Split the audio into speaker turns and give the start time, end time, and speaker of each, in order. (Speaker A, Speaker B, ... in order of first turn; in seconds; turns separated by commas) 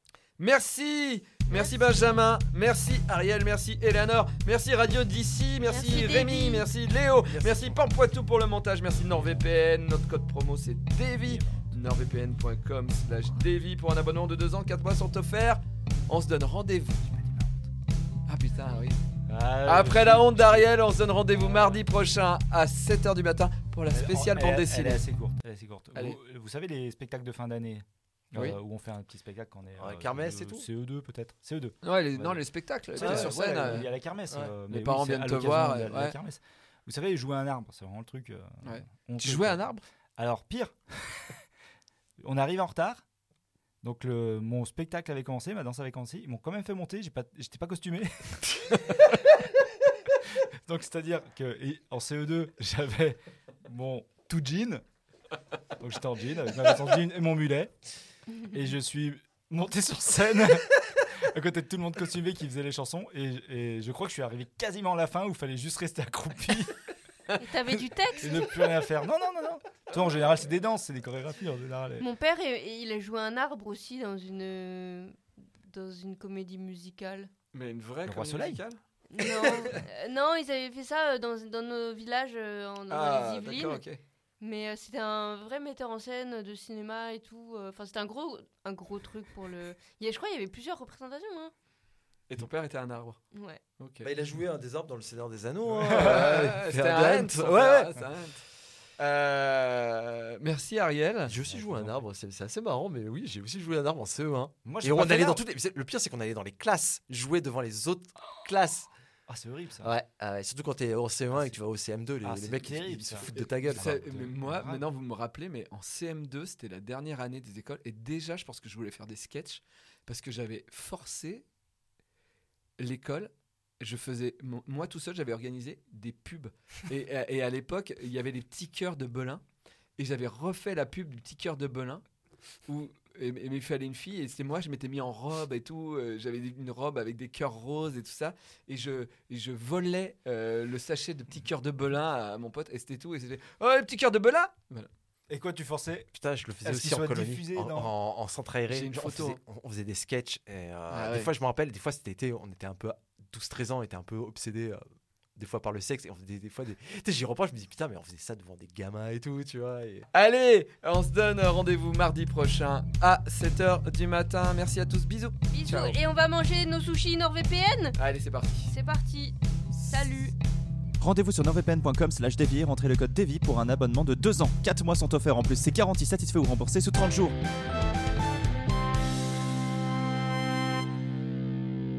Speaker A: 0.4-17.1, Speaker B: 1.5-1.7, Speaker B: 5.7-6.7, Speaker C: 7.3-7.8, Speaker D: 11.2-11.7, Speaker D: 17.1-17.7, Speaker A: 18.3-19.0, Speaker D: 19.3-20.7, Speaker A: 19.6-25.0, Speaker D: 21.3-21.8, Speaker D: 23.9-39.6, Speaker C: 29.8-30.7, Speaker A: 31.8-33.9, Speaker C: 33.0-33.3, Speaker A: 34.7-36.1, Speaker A: 38.6-39.8, Speaker D: 40.2-41.4, Speaker D: 42.2-43.0, Speaker D: 43.8-48.8, Speaker D: 50.6-54.8, Speaker D: 55.8-57.7, Speaker D: 58.5-66.8, Speaker B: 67.4-68.6, Speaker D: 68.2-72.1, Speaker B: 72.0-77.3, Speaker A: 77.5-79.8, Speaker D: 78.0-78.6, Speaker B: 79.1-83.8, Speaker A: 82.9-84.0, Speaker B: 84.4-91.5, Speaker A: 92.3-93.2, Speaker B: 93.3-93.6, Speaker A: 93.8-94.1, Speaker C: 94.0-97.9, Speaker D: 95.7-96.3, Speaker A: 95.8-98.4, Speaker A: 99.0-101.3, Speaker C: 101.2-108.9, Speaker D: 101.5-102.1, Speaker D: 104.6-105.4, Speaker D: 109.3-109.9, Speaker C: 109.8-114.3, Speaker D: 111.3-111.6, Speaker D: 112.2-114.8, Speaker A: 113.8-121.4, Speaker A: 122.8-129.4, Speaker A: 130.0-132.0, Speaker A: 132.7-144.9, Speaker D: 145.3-147.9, Speaker C: 146.2-154.8, Speaker A: 148.7-149.4, Speaker A: 150.9-151.3, Speaker C: 155.4-160.1, Speaker A: 160.1-166.0, Speaker B: 165.5-167.9, Speaker A: 168.0-168.7, Speaker B: 168.7-170.3, Speaker E: 171.0-177.4